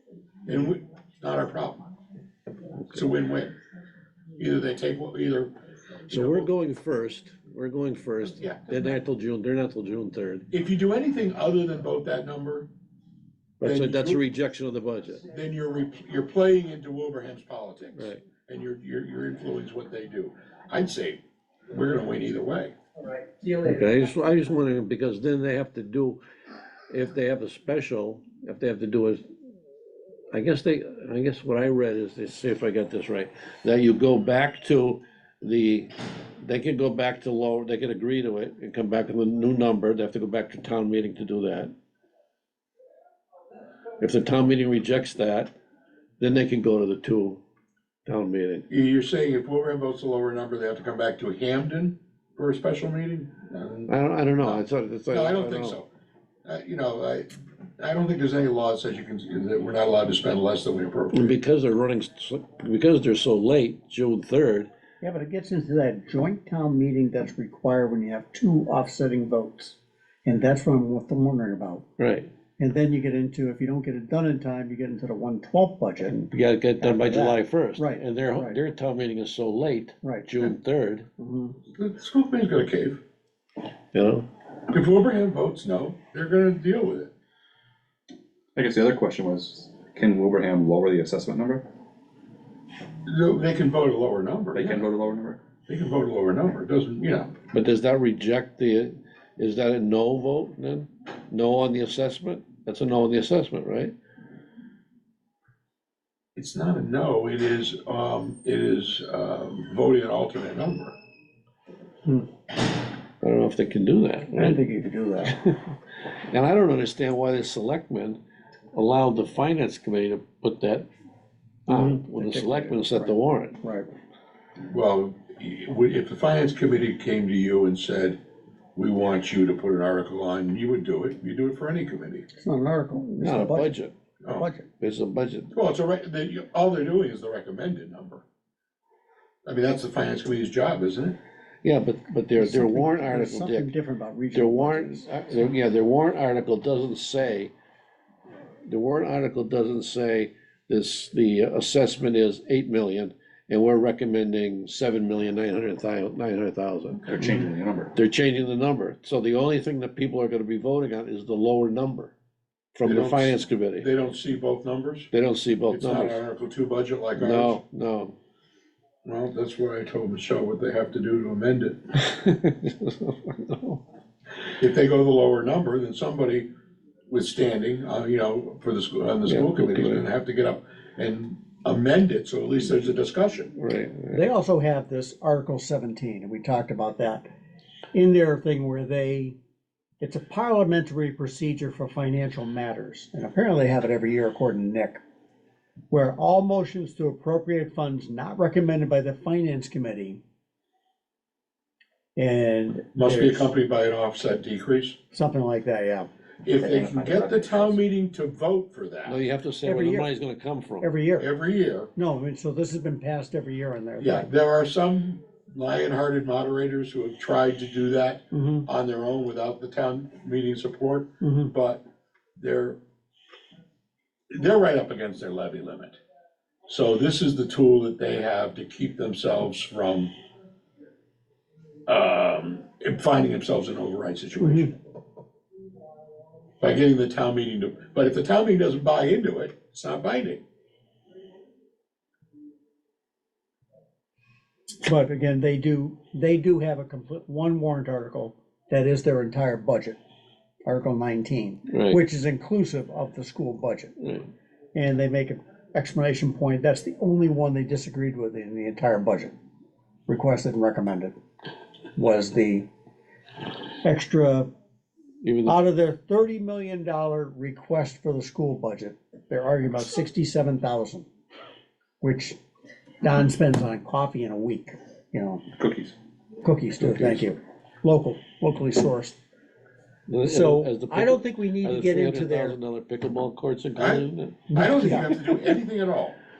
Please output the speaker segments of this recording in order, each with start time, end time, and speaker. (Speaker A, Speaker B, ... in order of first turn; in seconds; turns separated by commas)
Speaker A: 0.5-1.8, Speaker A: 2.9-3.5, Speaker A: 4.4-5.5, Speaker B: 6.1-10.5, Speaker A: 6.1-6.5, Speaker A: 10.5-12.7, Speaker B: 13.6-15.2, Speaker A: 13.6-14.2, Speaker A: 15.2-22.7, Speaker B: 17.9-18.2, Speaker C: 23.2-23.8, Speaker B: 23.6-26.2, Speaker B: 26.9-29.2, Speaker B: 30.3-41.7, Speaker B: 44.0-45.5, Speaker B: 46.2-47.4, Speaker B: 48.0-48.6, Speaker A: 48.7-55.9, Speaker B: 53.9-55.8, Speaker A: 56.4-61.4, Speaker B: 61.1-64.7, Speaker C: 65.0-71.8, Speaker B: 72.0-72.3, Speaker C: 72.6-76.2, Speaker B: 76.0-81.1, Speaker C: 76.8-78.6, Speaker C: 80.0-80.4, Speaker C: 81.2-81.5, Speaker A: 81.8-83.0, Speaker B: 83.9-84.2, Speaker A: 84.7-87.1, Speaker D: 88.5-91.7, Speaker A: 93.0-94.9, Speaker D: 94.5-95.4, Speaker A: 95.7-97.3, Speaker B: 97.5-103.9, Speaker A: 106.3-111.0, Speaker B: 113.2-114.6, Speaker C: 114.3-115.4, Speaker B: 115.2-115.6, Speaker B: 116.3-118.2, Speaker B: 118.7-120.9, Speaker B: 121.7-123.6, Speaker C: 121.7-123.9, Speaker A: 124.7-128.2, Speaker A: 128.8-132.3, Speaker C: 132.4-133.7, Speaker B: 133.2-133.9, Speaker A: 134.2-134.5, Speaker C: 134.3-134.7, Speaker B: 134.8-135.5, Speaker A: 135.5-138.2, Speaker A: 139.4-141.2, Speaker B: 141.6-143.7, Speaker C: 142.4-145.1, Speaker B: 144.3-147.5, Speaker B: 148.7-157.3, Speaker D: 157.1-157.9, Speaker B: 157.9-162.1, Speaker B: 162.7-163.9, Speaker A: 162.8-165.1, Speaker B: 165.1-166.2, Speaker A: 165.7-167.6, Speaker B: 167.2-168.1, Speaker A: 169.0-171.8, Speaker B: 172.0-173.8, Speaker A: 174.6-176.5, Speaker A: 177.1-183.5, Speaker B: 179.2-180.0, Speaker B: 183.6-184.3, Speaker C: 184.1-187.2, Speaker C: 187.9-189.4, Speaker C: 190.0-195.0, Speaker C: 195.9-200.2, Speaker C: 202.2-203.5, Speaker A: 202.9-205.0, Speaker C: 205.1-206.1, Speaker A: 206.4-209.2, Speaker D: 206.6-207.8, Speaker B: 209.1-210.9, Speaker C: 209.6-210.1, Speaker C: 210.8-211.3, Speaker A: 211.2-211.9, Speaker C: 211.9-214.3, Speaker A: 214.0-221.8, Speaker C: 218.3-218.7, Speaker C: 221.2-221.5, Speaker A: 222.4-222.8, Speaker A: 224.3-226.0, Speaker A: 226.7-230.1, Speaker A: 231.9-234.8, Speaker C: 234.4-234.7, Speaker A: 236.6-240.4, Speaker C: 244.8-250.0, Speaker C: 250.7-253.9, Speaker B: 251.7-252.0, Speaker B: 254.0-254.3, Speaker C: 254.7-259.3, Speaker C: 260.1-261.1, Speaker C: 261.9-262.7, Speaker C: 263.8-264.5, Speaker B: 265.2-265.6, Speaker C: 265.4-271.1, Speaker C: 272.0-272.4, Speaker C: 273.0-275.4, Speaker D: 275.6-275.9, Speaker C: 276.4-279.2, Speaker D: 276.8-277.2, Speaker B: 280.1-285.0, Speaker C: 280.2-282.6, Speaker A: 283.8-286.2, Speaker C: 284.5-285.2